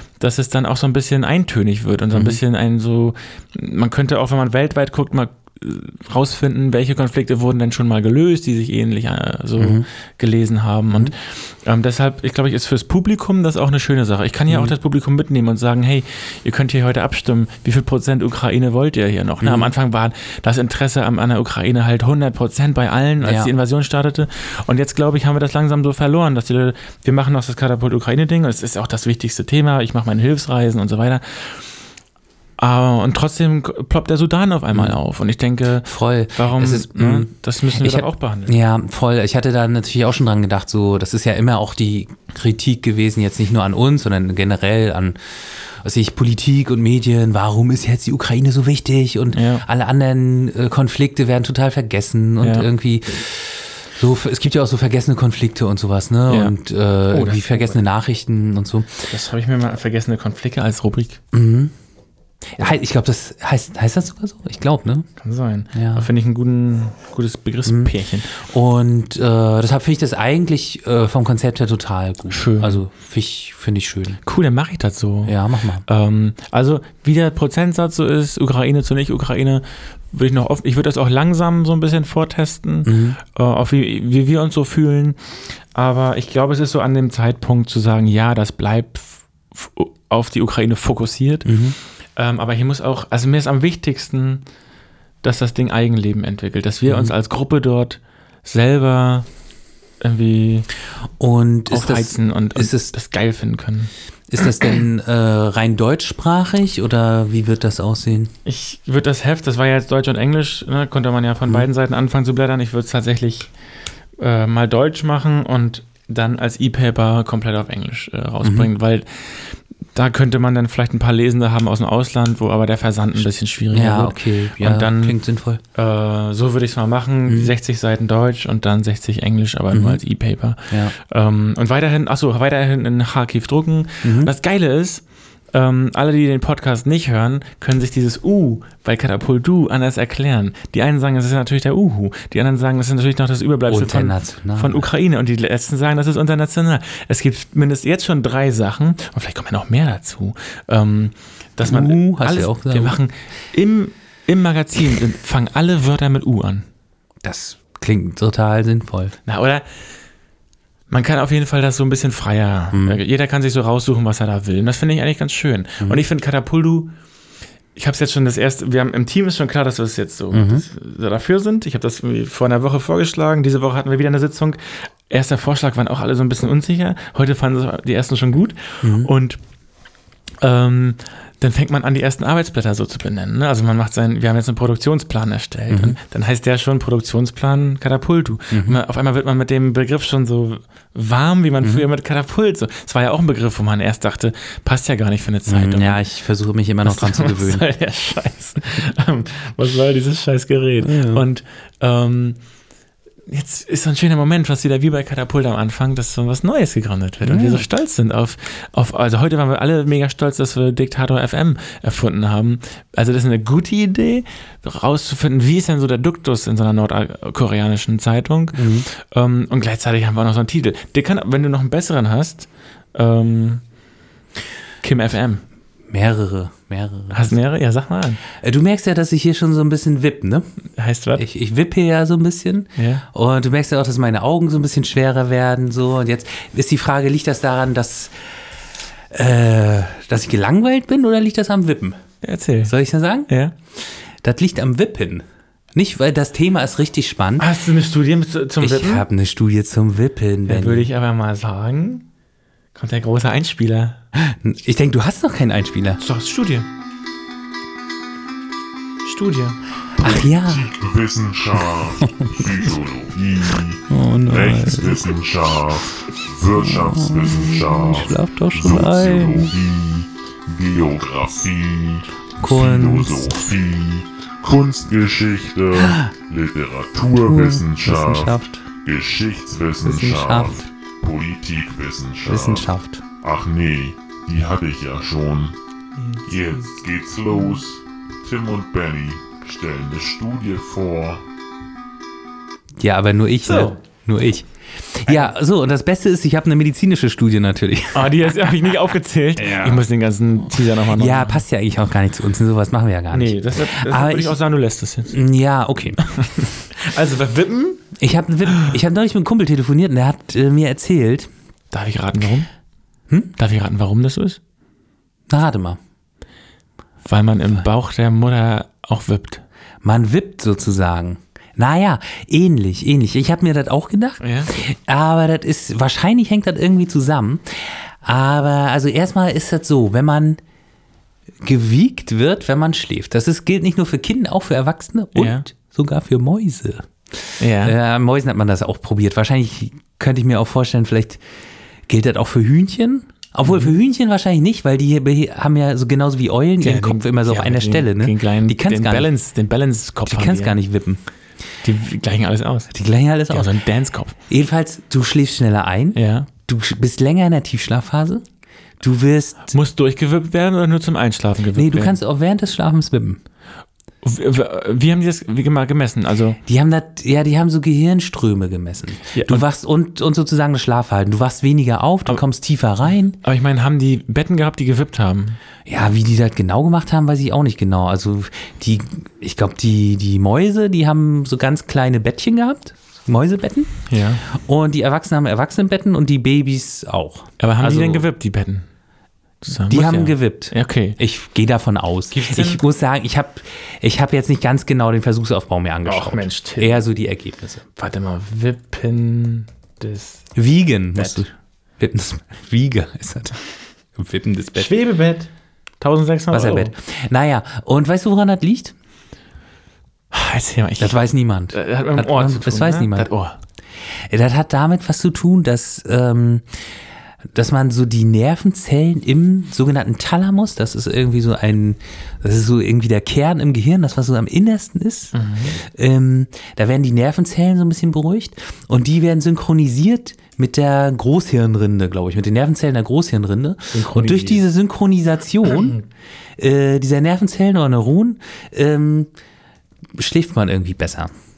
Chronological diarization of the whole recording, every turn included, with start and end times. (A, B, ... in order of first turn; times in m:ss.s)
0:00.2-0:31.6 A
0:02.1-0:02.4 B
0:09.6-0:09.9 B
0:14.5-0:14.7 B
0:19.4-0:19.7 B
0:23.2-0:23.5 B
0:32.6-0:38.6 A
0:35.8-0:59.1 B
0:49.3-0:49.7 A
0:52.4-0:52.7 A
0:56.3-0:56.6 A
0:57.1-0:57.8 A
0:59.1-1:01.2 A
1:01.3-1:01.7 B
1:02.6-1:05.1 B
1:05.2-1:08.4 A
1:05.7-1:06.1 B
1:07.6-1:14.2 B
1:12.3-1:12.8 A
1:14.2-1:25.2 A
1:15.3-1:15.8 B
1:22.9-1:23.2 B
1:25.7-1:31.5 A
1:31.5-1:31.8 B
1:32.2-1:34.4 A
1:35.2-1:39.3 A
1:36.9-1:37.1 B
1:40.0-1:40.7 A
1:41.2-1:42.9 B
1:41.7-1:43.9 A
1:44.3-1:48.3 B
1:48.5-1:53.5 A
1:54.2-2:05.2 A
1:58.4-1:58.7 B
2:03.7-2:05.6 B
2:05.7-2:36.7 A
2:07.3-2:07.5 B
2:09.7-2:10.0 B
2:10.7-2:11.0 B
2:14.0-2:14.3 B
2:23.7-2:24.9 B
2:31.6-2:33.0 B
2:37.2-2:39.2 B
2:39.3-2:39.6 A
2:40.9-2:46.9 A
2:42.7-2:43.0 B
2:47.8-2:59.4 A
2:50.3-2:50.6 B
2:58.8-2:59.1 B
3:00.4-3:16.0 A
3:05.7-3:06.0 B
3:08.5-3:08.8 B
3:15.5-3:17.6 B
3:16.8-3:22.4 A
3:20.8-3:21.2 B
3:23.3-3:43.6 A
3:27.2-3:27.6 B
3:38.6-3:38.9 B
3:44.8-3:45.4 A
3:45.9-3:47.4 B
3:47.1-3:48.2 A
3:48.3-3:50.5 B
3:50.8-3:51.2 A
3:51.2-3:58.1 B
3:52.8-3:53.0 A
3:59.1-4:02.0 B
4:02.2-4:02.7 A
4:02.6-4:03.3 B
4:03.3-4:03.5 A
4:04.2-4:07.5 B
4:07.4-4:09.1 A
4:08.6-4:10.9 B
4:10.5-4:12.1 A
4:12.7-4:14.0 A
4:14.2-4:16.0 B
4:16.0-4:16.7 A
4:19.0-4:19.6 A
4:20.0-4:20.7 B
4:20.0-4:42.7 C
4:22.0-4:22.5 B
4:23.9-4:25.1 B
4:26.6-4:29.5 B
4:32.4-4:33.4 B
4:35.8-4:36.1 B
4:37.2-4:38.6 B
4:39.8-4:40.6 B
4:42.3-4:43.0 B
4:43.2-4:45.6 C
4:46.0-4:46.2 A
4:46.3-4:51.2 C
4:52.8-4:58.5 B
4:53.4-4:53.8 A
4:55.1-4:55.3 A
4:57.9-5:01.4 A
4:59.4-4:59.8 B
5:00.8-5:04.4 B
5:03.1-5:05.2 A
5:05.1-5:06.0 B
5:06.0-5:07.9 A
5:08.0-5:11.3 B
5:11.7-5:12.5 A
5:13.1-5:13.3 B
5:13.4-5:14.4 A
5:15.3-5:15.8 B
5:17.1-5:19.4 A
5:19.8-5:30.4 B
5:24.2-5:24.5 A
5:31.4-5:36.9 B
5:35.2-5:35.5 A
5:37.4-5:37.8 A
5:37.6-5:41.2 B
5:41.9-5:49.1 B
5:43.4-5:43.8 A
5:46.6-5:50.6 A
5:50.1-5:51.0 B
5:51.6-5:52.7 A
5:52.7-5:53.5 B
5:53.3-5:54.2 A
5:54.3-5:58.2 B
5:55.9-5:56.3 A
5:58.8-5:59.5 B
5:59.5-6:02.0 A
6:01.6-6:03.2 B
6:04.0-6:06.4 A
6:06.4-6:13.2 B
6:09.1-6:09.4 A
6:13.2-6:15.4 A
6:15.7-6:28.1 B
6:23.9-6:24.2 A
6:27.4-6:28.7 A
6:29.4-6:31.0 A
6:29.7-6:37.6 B
6:32.1-6:32.6 A
6:35.8-6:36.8 A
6:37.8-6:40.3 A
6:40.4-6:43.4 B
6:41.0-6:41.2 A
6:44.0-6:44.7 B
6:44.6-6:46.7 A
6:46.3-6:48.8 B
6:50.1-6:51.0 A
6:50.8-6:53.1 B
6:51.5-6:53.4 A
6:54.1-6:56.5 B
6:57.3-7:15.8 B
7:05.1-7:05.6 A
7:13.7-7:14.4 A
7:16.4-7:19.1 B
7:20.0-7:21.1 B